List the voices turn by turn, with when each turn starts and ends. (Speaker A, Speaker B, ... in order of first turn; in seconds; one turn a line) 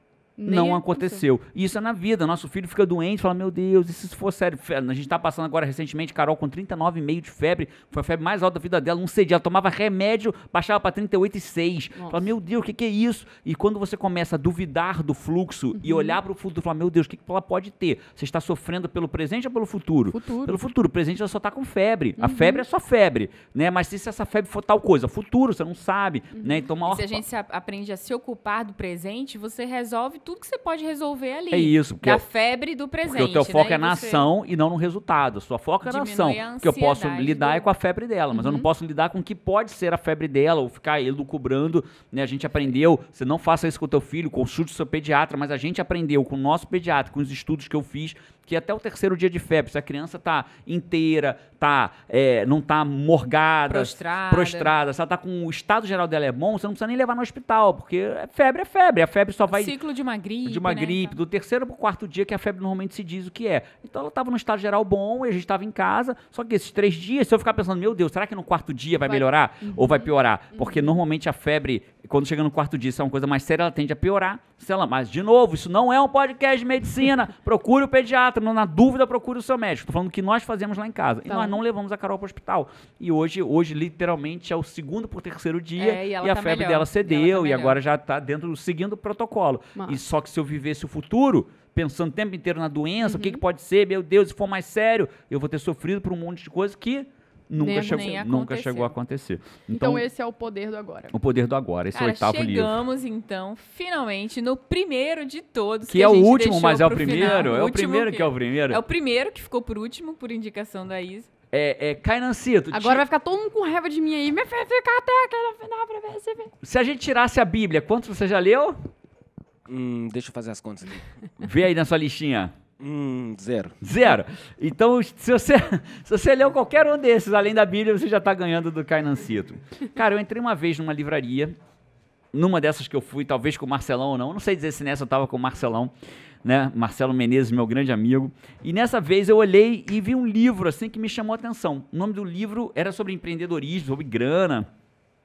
Speaker A: 0.4-1.2
Speaker B: 0.5-27.2
Speaker A: 11.9-12.2
Speaker A: 15.8-16.2
Speaker A: 20.1-20.6
Speaker A: 22.2-22.6
Speaker A: 26.4-26.7
Speaker C: 26.8-34.3
Speaker B: 31.5-32.2
Speaker B: 33.0-59.7
Speaker C: 35.8-37.7
Speaker A: 38.3-38.7
Speaker C: 53.7-54.7
Speaker C: 59.5-61.1
Speaker B: 60.4-100.0
Speaker A: 69.0-71.0
Speaker A: 81.3-81.6
Speaker C: 85.8-87.8
Speaker A: 93.0-93.4
Speaker A: 97.6-98.2
Speaker C: 97.7-98.9
Speaker A: 99.7-101.1
Speaker B: 101.1-102.8
Speaker C: 101.9-111.3
Speaker B: 105.9-108.8
Speaker A: 107.0-107.5
Speaker B: 111.5-113.0
Speaker A: 112.7-116.5
Speaker B: 116.6-118.8
Speaker D: 119.7-121.0
Speaker B: 121.4-122.5
Speaker D: 122.8-123.8
Speaker B: 123.8-131.6
Speaker B: 132.3-135.9
Speaker B: 136.4-144.7